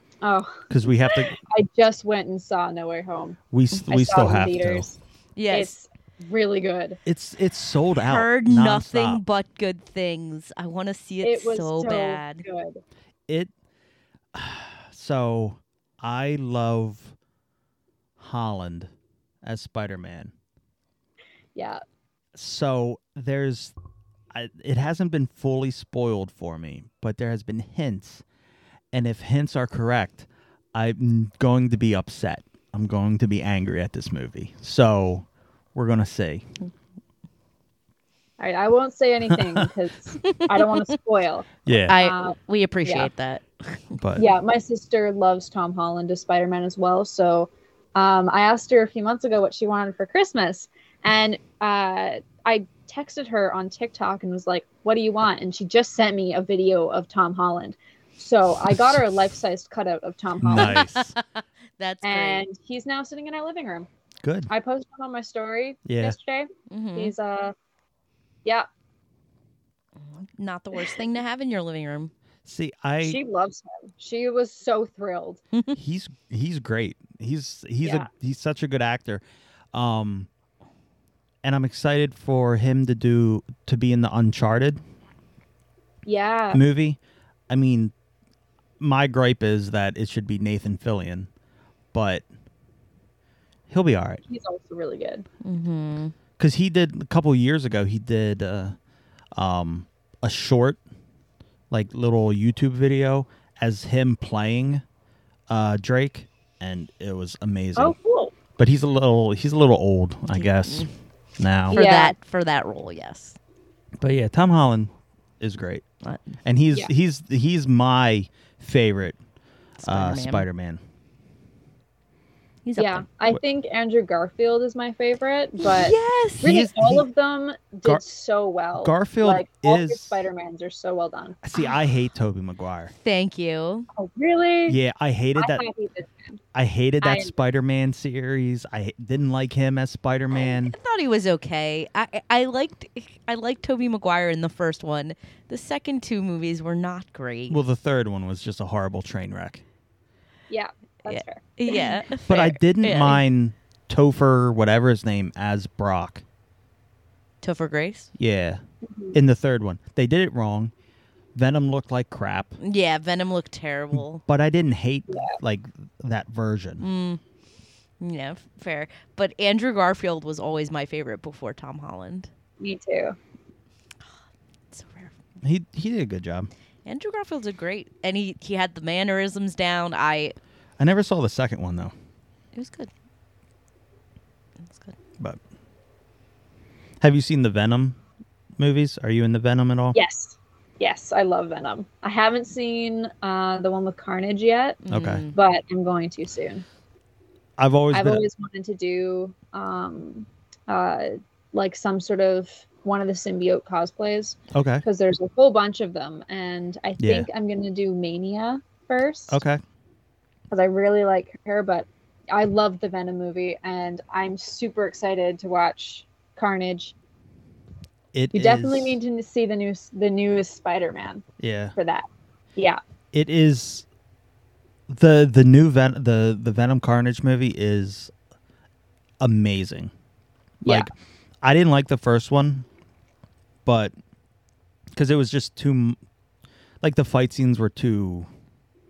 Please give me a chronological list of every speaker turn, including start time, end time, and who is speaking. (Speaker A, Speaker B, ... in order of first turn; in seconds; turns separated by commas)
Speaker A: 0.2-3.4, Speaker B: 0.7-1.4, Speaker B: 3.5-4.9, Speaker A: 3.9-5.0, Speaker C: 5.4-5.8, Speaker A: 5.5-7.0, Speaker B: 7.1-9.2, Speaker C: 8.0-12.4, Speaker A: 11.2-12.8, Speaker B: 14.3-17.2, Speaker B: 18.2-18.9, Speaker B: 19.4-20.3, Speaker A: 21.6-21.8, Speaker B: 22.4-23.8, Speaker B: 24.3-28.2, Speaker B: 28.9-36.5, Speaker A: 38.4-43.1, Speaker B: 39.3-39.6, Speaker C: 40.2-40.9, Speaker B: 41.7-42.0, Speaker C: 41.9-44.0, Speaker B: 44.0-44.3, Speaker A: 44.2-60.8, Speaker B: 58.7-59.0, Speaker B: 60.4-61.1, Speaker C: 60.6-61.2, Speaker C: 61.8-62.4, Speaker A: 62.0-63.9, Speaker B: 64.2-64.5, Speaker A: 64.5-67.5, Speaker B: 65.9-66.2, Speaker C: 66.7-67.1, Speaker C: 70.0-72.1, Speaker A: 70.7-71.0, Speaker B: 72.5-73.2, Speaker A: 73.0-75.4, Speaker B: 75.8-79.2, Speaker A: 77.8-78.1, Speaker B: 79.7-80.3, Speaker B: 81.4-84.8, Speaker A: 86.0-86.6, Speaker B: 86.5-87.0, Speaker B: 87.5-87.9, Speaker B: 88.8-91.3, Speaker B: 91.9-92.2, Speaker B: 93.7-94.2, Speaker A: 94.3-95.2, Speaker C: 95.4-96.2, Speaker B: 96.4-98.8, Speaker B: 99.3-100.8, Speaker B: 101.7-104.8, Speaker B: 105.5-108.0, Speaker A: 107.8-108.3, Speaker B: 108.6-111.8, Speaker C: 110.3-110.9, Speaker C: 111.7-113.4, Speaker A: 111.7-112.2, Speaker B: 114.0-115.8, Speaker C: 116.0-116.3, Speaker B: 116.5-119.2, Speaker C: 119.8-120.5, Speaker B: 119.8-120.8, Speaker C: 122.7-123.1, Speaker A: 122.8-131.4, Speaker C: 125.6-126.5, Speaker B: 126.4-127.1, Speaker B: 128.8-130.2, Speaker B: 131.4-132.9, Speaker C: 132.9-133.9, Speaker A: 134.0-134.8, Speaker B: 134.7-135.6, Speaker A: 135.4-136.4, Speaker B: 136.5-140.8, Speaker A: 137.0-137.3, Speaker C: 140.3-147.6, Speaker B: 147.5-149.6, Speaker A: 150.5-152.0, Speaker C: 151.1-153.2, Speaker B: 152.3-156.2, Speaker C: 157.4-158.1, Speaker B: 158.2-158.6, Speaker A: 158.8-159.2, Speaker B: 159.1-160.7, Speaker B: 161.3-162.6, Speaker C: 162.6-164.2, Speaker B: 163.9-166.8, Speaker C: 166.8-167.2, Speaker C: 168.0-172.3, Speaker A: 172.6-173.2, Speaker C: 174.7-175.1, Speaker B: 175.4-176.5, Speaker C: 176.8-180.3, Speaker B: 180.8-181.9, Speaker C: 182.6-182.9, Speaker C: 184.6-185.0, Speaker B: 187.0-188.0, Speaker B: 188.6-190.0, Speaker A: 189.9-194.8, Speaker C: 194.8-195.3, Speaker B: 194.9-195.3, Speaker A: 195.3-196.6, Speaker B: 197.6-198.2, Speaker A: 197.9-209.4, Speaker B: 204.5-204.8, Speaker B: 207.0-207.3, Speaker B: 209.3-209.6, Speaker A: 210.5-216.9, Speaker B: 218.1-219.0, Speaker A: 218.3-221.2, Speaker B: 221.4-221.8, Speaker A: 221.8-222.8, Speaker B: 223.1-223.9, Speaker B: 224.9-228.1, Speaker B: 229.2-229.9, Speaker B: 230.6-230.9, Speaker B: 231.4-232.7, Speaker B: 233.7-233.9, Speaker B: 234.9-236.0, Speaker B: 236.8-238.3